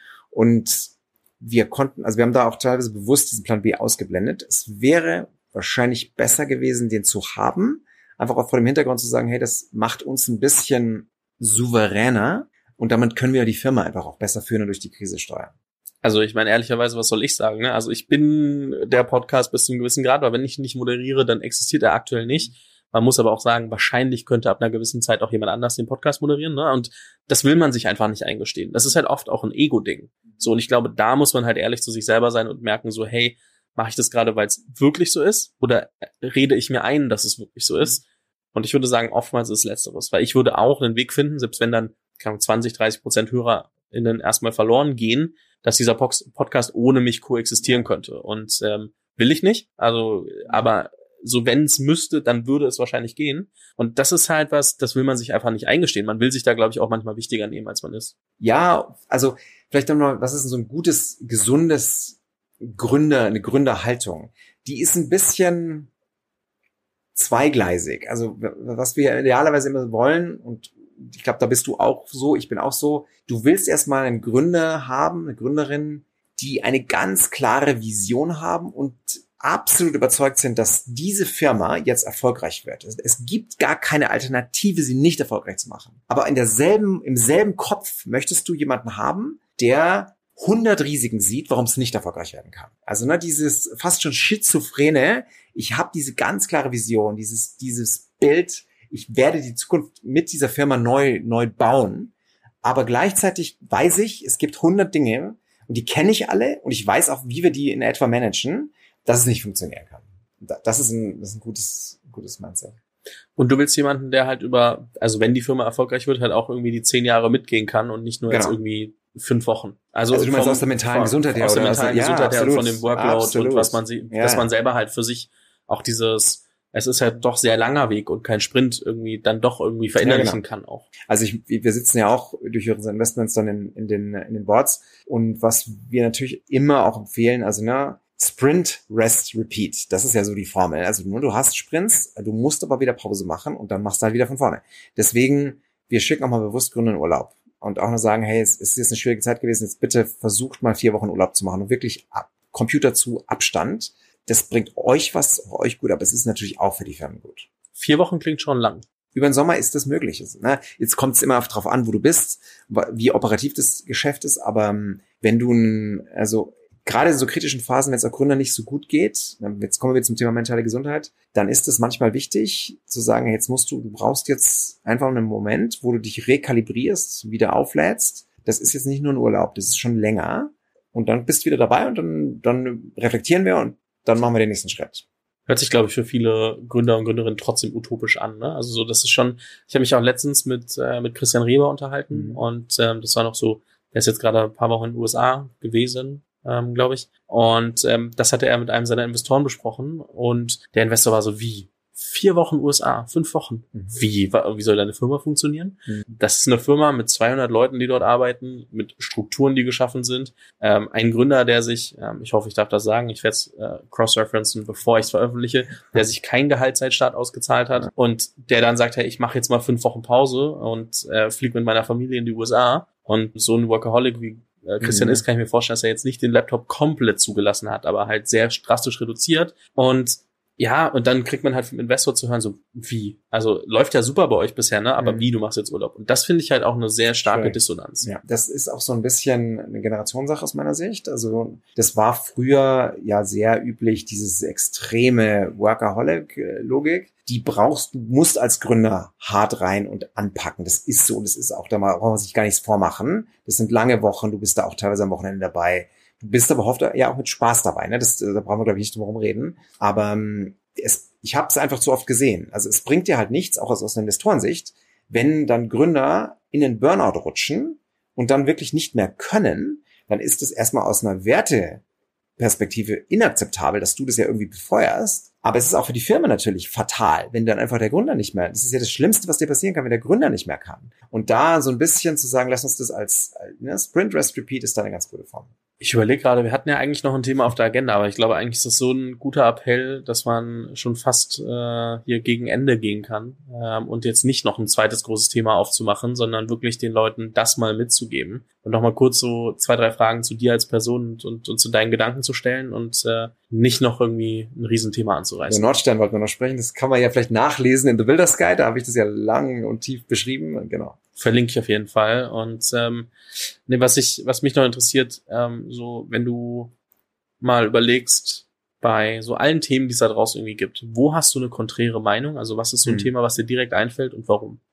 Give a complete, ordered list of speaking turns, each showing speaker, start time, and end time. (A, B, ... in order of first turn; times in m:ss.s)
0:00.3-0:15.5 A
0:16.0-0:58.1 B
0:58.4-1:05.9 A
1:07.1-1:42.1 A
1:42.6-1:52.8 A
1:53.4-2:10.8 B
1:58.3-1:58.6 A
2:00.1-2:04.5 A
2:10.0-2:10.4 A
2:11.1-2:37.5 A
2:37.7-2:38.8 B
2:39.1-3:05.0 A
3:05.5-3:58.1 B
3:12.1-3:12.4 A
3:44.8-3:45.2 A
3:55.0-3:55.3 A
3:57.2-4:31.8 A
4:32.4-4:45.5 A
4:45.8-5:05.6 B
5:05.5-5:11.0 A
5:11.2-5:13.1 B
5:13.6-5:16.7 B
5:17.4-5:24.6 B
5:22.8-5:23.1 A